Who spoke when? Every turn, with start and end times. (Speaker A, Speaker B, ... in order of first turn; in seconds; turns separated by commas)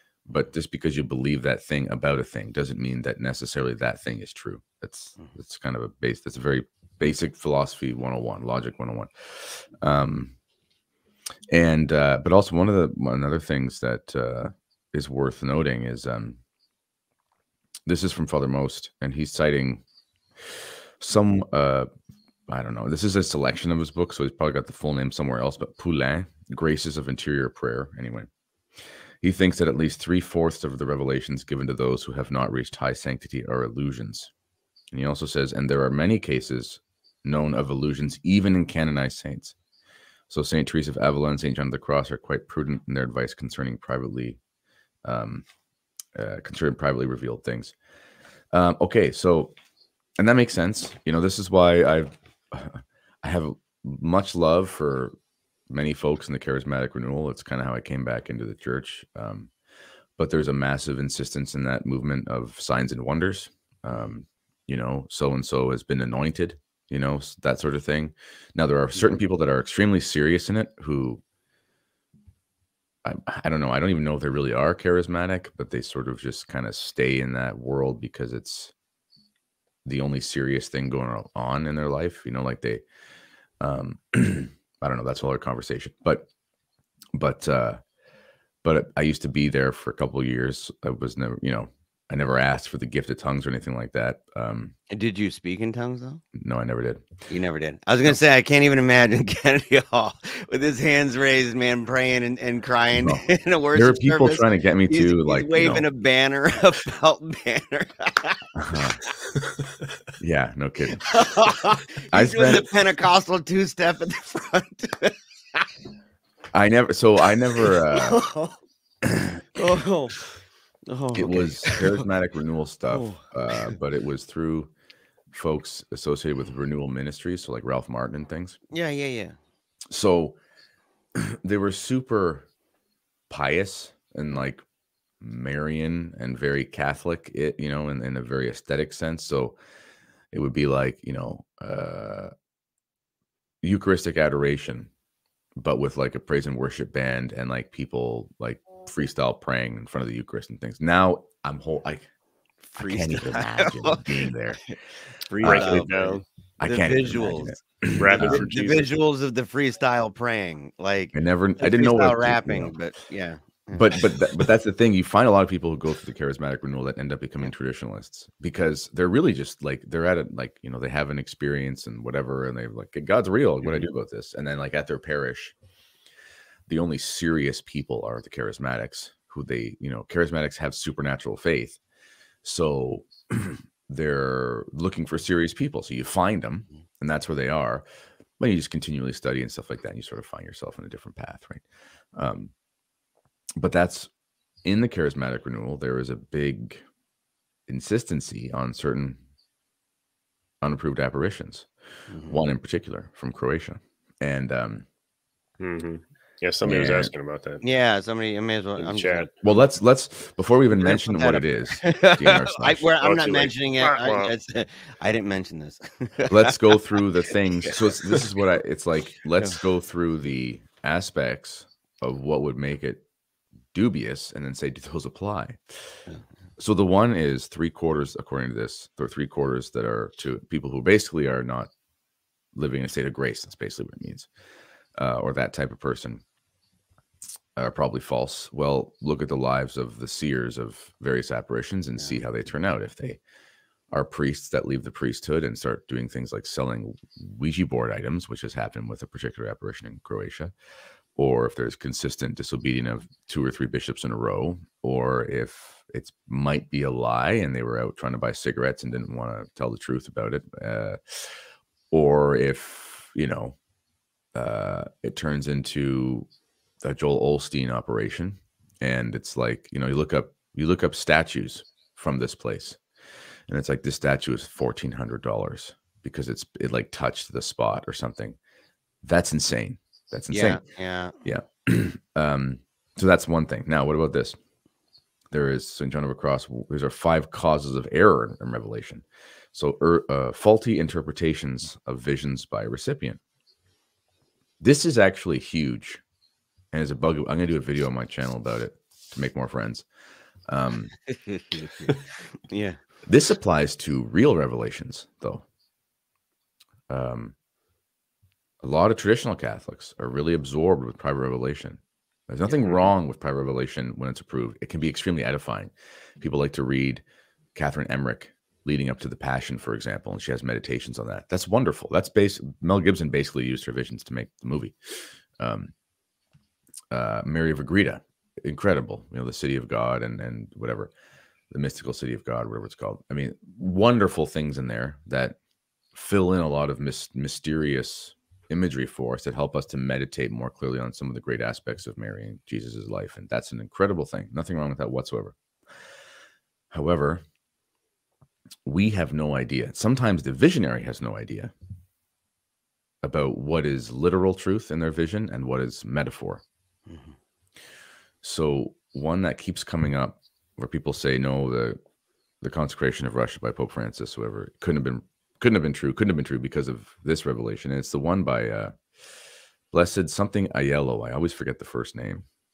Speaker A: 0.3-10.3, Speaker A: 11.5-16.4, Speaker A: 17.9-19.8, Speaker A: 21.0-21.9, Speaker A: 22.5-28.3, Speaker A: 29.2-34.3, Speaker A: 34.9-39.5, Speaker A: 40.3-44.4, Speaker A: 45.0-45.4, Speaker A: 46.1-47.7, Speaker A: 48.5-49.5, Speaker A: 50.2-55.1, Speaker A: 55.7-59.5, Speaker A: 60.2-71.2, Speaker A: 73.0-78.7, Speaker A: 79.8-82.8, Speaker A: 83.6-86.3, Speaker A: 87.2-87.8, Speaker A: 88.6-94.7, Speaker B: 94.9-96.2, Speaker A: 96.3-97.2, Speaker B: 97.3-108.5, Speaker A: 103.0-105.8, Speaker A: 108.5-109.0, Speaker A: 110.2-111.1, Speaker B: 111.0-115.7, Speaker A: 112.1-112.7, Speaker A: 116.5-118.2, Speaker B: 117.6-118.6, Speaker A: 119.1-119.4, Speaker B: 119.5-120.2, Speaker B: 120.9-122.0, Speaker A: 121.1-124.7, Speaker B: 122.9-123.7, Speaker A: 125.3-128.6, Speaker B: 128.7-129.4, Speaker A: 129.9-130.3, Speaker A: 131.2-132.5, Speaker A: 133.3-134.6, Speaker A: 135.2-139.6, Speaker A: 140.3-142.3, Speaker A: 143.6-144.9, Speaker A: 145.6-152.1, Speaker B: 152.7-154.7, Speaker A: 152.8-154.6, Speaker B: 155.3-157.6, Speaker A: 155.4-155.9, Speaker C: 155.4-156.2, Speaker A: 156.6-158.6, Speaker C: 158.0-158.9, Speaker B: 158.2-163.9, Speaker A: 161.1-162.7, Speaker A: 163.7-175.5, Speaker A: 176.7-181.8, Speaker A: 182.4-187.8, Speaker A: 188.4-191.6, Speaker A: 192.1-192.5, Speaker A: 193.6-194.1, Speaker A: 194.6-196.8, Speaker A: 197.7-199.2, Speaker A: 200.6-201.7, Speaker B: 202.1-202.4, Speaker A: 202.2-204.8, Speaker C: 205.6-207.6, Speaker A: 206.6-207.1, Speaker B: 207.6-209.3, Speaker C: 208.8-209.3, Speaker A: 209.4-212.9, Speaker B: 210.7-216.6, Speaker C: 213.0-214.3, Speaker A: 216.3-223.0, Speaker A: 223.7-225.9, Speaker A: 226.6-231.7, Speaker A: 232.5-234.3, Speaker A: 235.0-236.2, Speaker A: 237.6-243.2, Speaker A: 243.9-250.5, Speaker A: 251.2-261.3, Speaker A: 261.9-263.6, Speaker A: 264.3-266.3, Speaker A: 266.8-272.8, Speaker A: 273.5-278.4, Speaker A: 279.0-280.6, Speaker B: 280.3-281.1, Speaker A: 281.2-284.4, Speaker A: 285.3-293.2, Speaker A: 294.6-296.0, Speaker A: 296.7-299.9, Speaker A: 300.5-300.9, Speaker B: 301.1-301.9, Speaker B: 302.4-302.8, Speaker A: 303.1-305.4, Speaker A: 306.9-307.3, Speaker A: 308.6-317.0, Speaker B: 312.5-312.9, Speaker A: 317.5-325.7, Speaker A: 326.9-330.9, Speaker A: 331.5-335.4, Speaker A: 335.9-345.4, Speaker A: 346.7-347.2, Speaker A: 348.6-351.5, Speaker A: 353.0-356.4, Speaker B: 356.9-357.1, Speaker A: 358.2-361.8, Speaker A: 362.4-368.8, Speaker A: 369.7-372.2